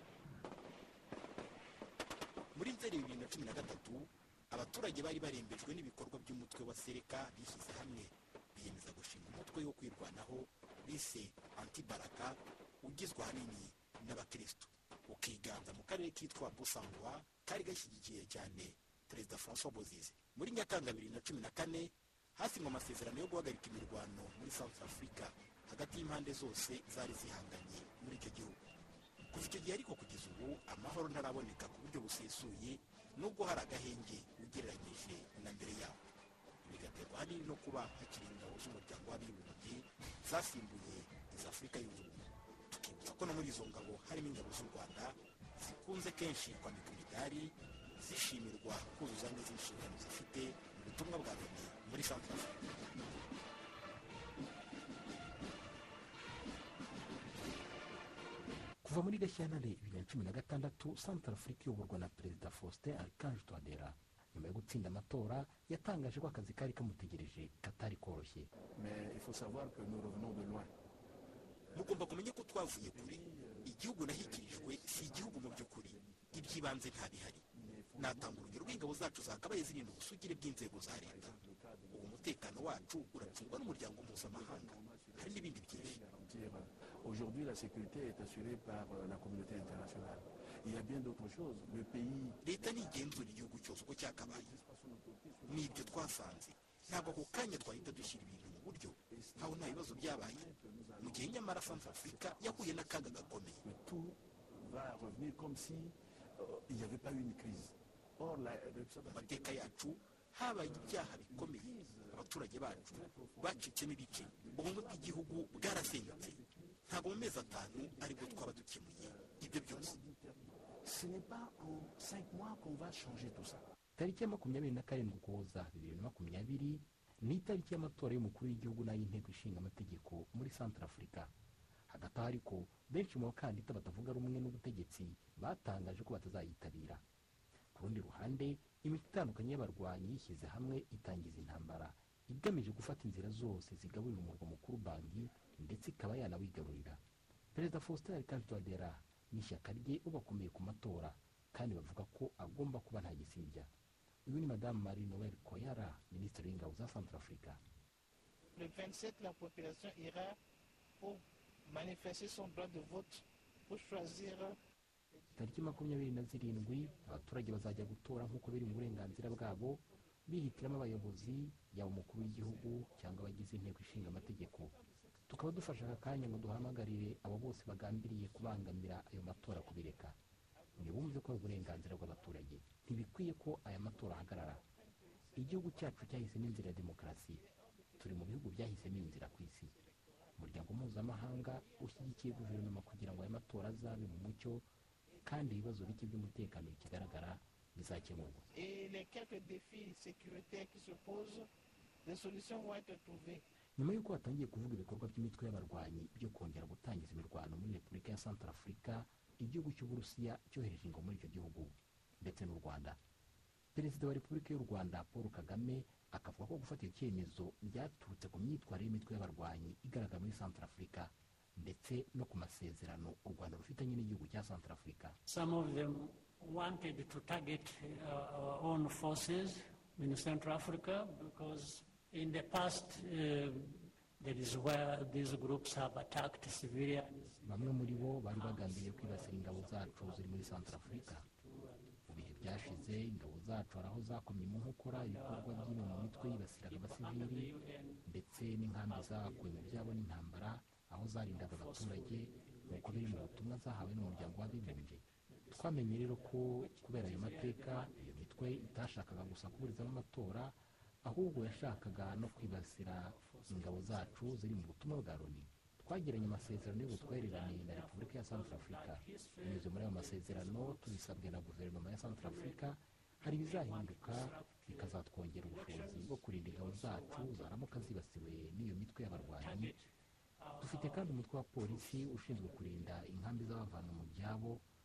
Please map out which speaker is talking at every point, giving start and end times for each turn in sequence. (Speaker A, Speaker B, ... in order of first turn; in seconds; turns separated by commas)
Speaker A: 2.5-28.6, Speaker A: 29.3-36.0, Speaker A: 36.6-52.7, Speaker B: 58.8-68.5, Speaker C: 68.8-70.7, Speaker C: 71.7-72.2, Speaker A: 71.7-77.4, Speaker C: 72.9-76.6, Speaker C: 77.5-79.1, Speaker A: 78.0-81.3, Speaker C: 80.5-93.3, Speaker A: 81.9-86.0, Speaker A: 92.4-94.5, Speaker C: 94.0-98.2, Speaker A: 95.5-100.4, Speaker C: 99.1-109.9, Speaker A: 101.0-103.6, Speaker A: 109.0-120.0, Speaker C: 110.5-123.6, Speaker B: 124.0-131.3, Speaker B: 131.9-137.0, Speaker B: 137.7-147.0, Speaker B: 147.5-153.7, Speaker B: 154.2-157.6, Speaker D: 158.5-160.3, Speaker D: 161.0-164.5, Speaker B: 165.3-174.8, Speaker B: 175.3-180.2, Speaker B: 180.8-184.6, Speaker B: 185.3-187.4, Speaker B: 188.0-189.7, Speaker B: 190.3-194.7, Speaker B: 195.2-198.5, Speaker D: 198.5-201.5, Speaker D: 202.0-203.4, Speaker B: 203.8-213.0, Speaker B: 213.7-225.2, Speaker E: 225.3-243.1, Speaker B: 237.4-241.2, Speaker B: 242.1-247.5, Speaker E: 244.9-248.1, Speaker B: 248.1-255.0, Speaker E: 248.6-250.0, Speaker E: 251.2-260.1, Speaker B: 255.5-279.7, Speaker E: 261.2-264.7, Speaker E: 266.1-271.3, Speaker E: 272.0-277.9, Speaker E: 279.1-279.8, Speaker E: 280.4-283.1, Speaker B: 280.6-284.6